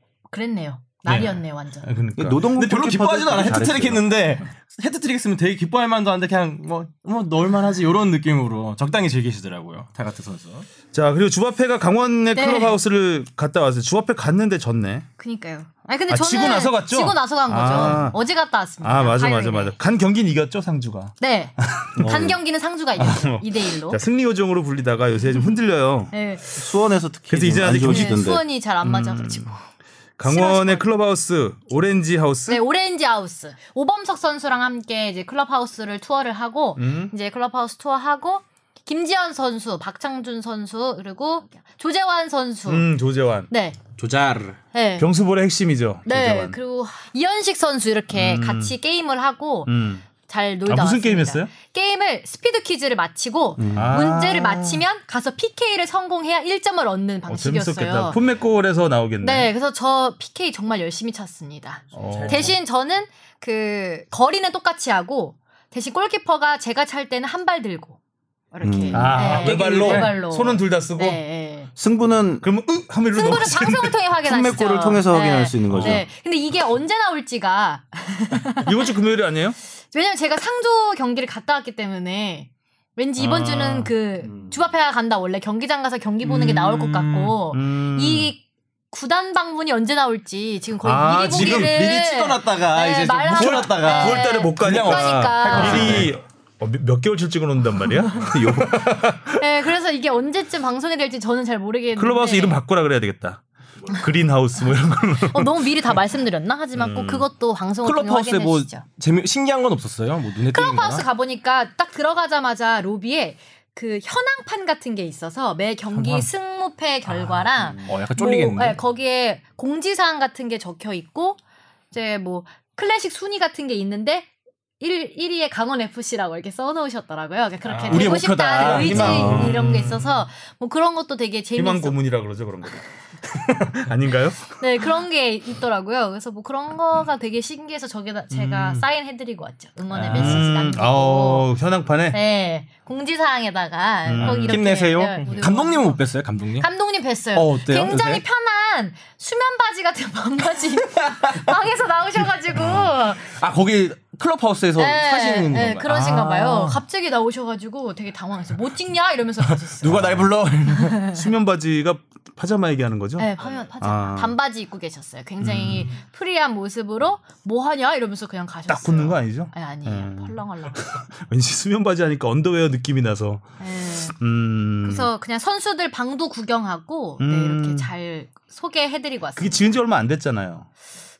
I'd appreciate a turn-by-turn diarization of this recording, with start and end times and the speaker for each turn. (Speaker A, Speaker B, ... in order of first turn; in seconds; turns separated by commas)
Speaker A: 0.3-1.9, Speaker B: 1.1-2.4, Speaker C: 2.2-4.1, Speaker D: 2.5-10.7, Speaker B: 10.9-15.1, Speaker A: 12.3-12.7, Speaker A: 15.2-19.7, Speaker B: 16.1-18.2, Speaker B: 18.8-22.3, Speaker A: 21.2-24.0, Speaker C: 22.0-22.4, Speaker B: 23.0-26.1, Speaker A: 25.3-25.6, Speaker A: 26.1-26.4, Speaker C: 26.5-28.4, Speaker B: 27.3-28.3, Speaker A: 27.6-29.6, Speaker B: 28.8-29.5, Speaker B: 30.2-32.6, Speaker A: 30.2-30.9, Speaker A: 32.5-42.9, Speaker B: 36.8-37.1, Speaker B: 42.7-43.5, Speaker A: 43.5-43.8, Speaker D: 44.0-44.6, Speaker A: 44.7-45.1, Speaker B: 45.0-46.6, Speaker A: 46.1-58.2, Speaker B: 48.1-48.8, Speaker B: 49.7-50.1, Speaker B: 50.7-51.5, Speaker C: 53.6-53.9, Speaker B: 53.7-54.8, Speaker B: 57.3-59.5, Speaker A: 59.2-68.0, Speaker B: 61.9-62.5, Speaker D: 62.0-62.6, Speaker A: 68.5-71.7, Speaker C: 68.6-69.5, Speaker B: 68.9-71.2, Speaker D: 69.1-70.1, Speaker C: 71.8-72.5, Speaker B: 72.4-74.0, Speaker A: 73.1-78.9, Speaker C: 74.2-76.0, Speaker B: 75.7-76.0, Speaker B: 78.6-79.6, Speaker A: 79.9-96.1, Speaker B: 83.2-84.4, Speaker B: 86.2-88.3, Speaker B: 90.8-91.8, Speaker D: 91.3-96.1, Speaker B: 93.4-99.5, Speaker C: 98.2-98.8, Speaker A: 99.4-102.6, Speaker B: 102.0-106.0, Speaker A: 105.1-108.8, Speaker B: 106.8-107.3, Speaker D: 107.8-111.0, Speaker A: 110.5-121.4, Speaker D: 115.9-116.2, Speaker B: 117.1-117.9, Speaker D: 117.8-118.8, Speaker A: 121.9-124.3, Speaker A: 124.8-132.0, Speaker B: 127.7-130.2, Speaker D: 127.9-129.6, Speaker B: 131.6-134.6, Speaker A: 134.5-141.5, Speaker B: 138.4-138.8, Speaker D: 139.9-140.5, Speaker B: 140.1-142.2, Speaker A: 142.1-146.0, Speaker B: 144.1-144.6, Speaker D: 144.2-146.7, Speaker A: 146.6-153.4, Speaker D: 147.3-148.2, Speaker D: 150.8-151.5, Speaker D: 152.6-156.8, Speaker A: 154.8-161.2, Speaker D: 159.4-161.1, Speaker B: 159.9-160.3, Speaker B: 161.2-164.4, Speaker A: 163.2-171.0, Speaker D: 163.4-163.7, Speaker B: 165.4-166.0, Speaker B: 168.7-173.5, Speaker A: 173.6-174.2, Speaker B: 174.1-175.1, Speaker A: 174.8-179.8, Speaker B: 177.2-177.9, Speaker B: 179.4-180.7